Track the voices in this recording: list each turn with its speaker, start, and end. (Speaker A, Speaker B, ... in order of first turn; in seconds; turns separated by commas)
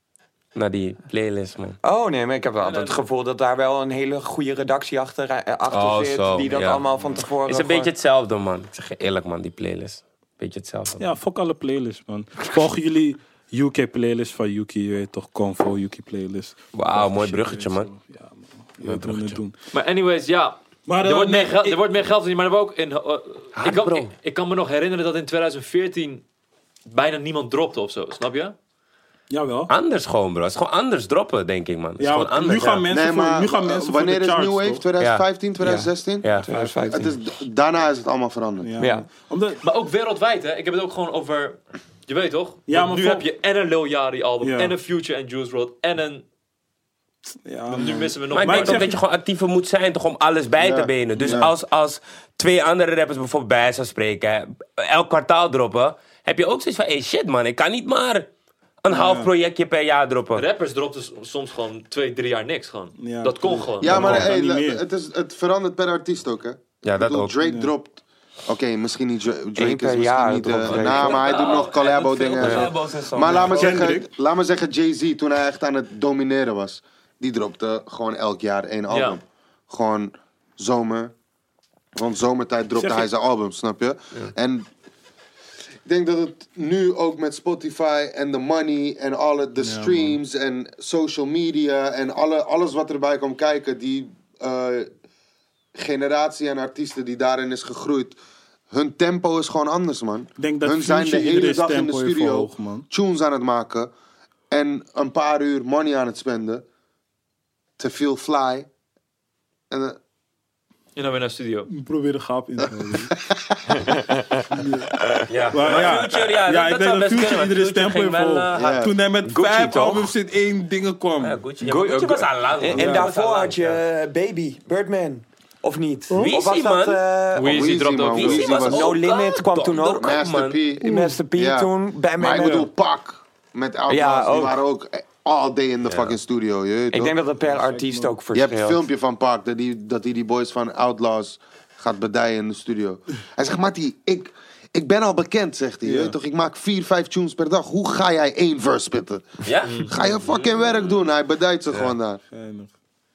Speaker A: 0.5-1.8, Speaker B: 1.8-7.9, Speaker C: 2.6-3.0, Speaker A: 5.7-6.8, Speaker A: 7.4-11.1, Speaker D: 11.0-19.5, Speaker A: 16.7-17.9, Speaker A: 18.8-19.4, Speaker C: 19.7-26.2, Speaker D: 20.9-21.8, Speaker A: 23.6-24.1, Speaker C: 26.9-28.5, Speaker D: 29.3-29.7, Speaker A: 29.7-32.9, Speaker D: 32.0-34.8, Speaker E: 32.9-36.3, Speaker A: 35.0-35.2, Speaker B: 35.6-37.1, Speaker A: 36.2-36.5, Speaker D: 36.5-36.9, Speaker E: 36.9-38.7, Speaker D: 38.6-39.6, Speaker B: 38.8-39.1, Speaker C: 39.6-46.2, Speaker D: 42.7-43.2, Speaker D: 44.4-44.7, Speaker D: 47.4-49.0, Speaker C: 47.7-48.9, Speaker A: 48.3-58.3, Speaker E: 50.6-51.5, Speaker D: 51.2-51.5, Speaker A: 58.8-60.4, Speaker D: 58.9-59.3, Speaker C: 60.3-64.2, Speaker D: 63.0-64.8, Speaker E: 63.8-81.1, Speaker A: 64.0-64.2, Speaker A: 66.8-67.3, Speaker D: 67.4-67.7, Speaker B: 69.5-71.2, Speaker A: 70.7-73.9, Speaker B: 72.4-72.7, Speaker D: 73.2-74.1, Speaker C: 78.9-79.2, Speaker E: 82.0-84.7, Speaker D: 82.8-83.1, Speaker E: 85.8-94.9, Speaker D: 89.6-90.2, Speaker E: 95.7-98.2, Speaker E: 98.7-103.9, Speaker D: 100.4-102.8, Speaker E: 104.5-106.6, Speaker E: 107.8-108.7, Speaker E: 109.7-110.0, Speaker C: 111.0-111.7, Speaker D: 111.7-113.1, Speaker E: 112.7-113.6, Speaker B: 113.7-114.4, Speaker D: 114.5-114.9, Speaker B: 115.0-115.2, Speaker A: 115.3-118.7, Speaker D: 115.5-121.4, Speaker E: 118.5-118.9, Speaker B: 119.2-120.1, Speaker A: 121.2-123.8, Speaker B: 121.6-127.8, Speaker D: 122.7-123.1, Speaker D: 126.1-126.3, Speaker A: 126.2-127.0, Speaker C: 127.3-128.6, Speaker E: 127.5-128.9, Speaker A: 128.1-130.6, Speaker B: 128.5-130.1, Speaker E: 130.0-137.1, Speaker D: 130.8-131.2, Speaker B: 130.8-132.7, Speaker B: 133.9-134.6, Speaker A: 135.9-136.1, Speaker B: 136.9-138.8, Speaker D: 137.5-138.1, Speaker E: 138.3-152.2, Speaker D: 145.8-146.1, Speaker A: 149.4-150.3, Speaker C: 149.6-149.9, Speaker D: 152.3-152.7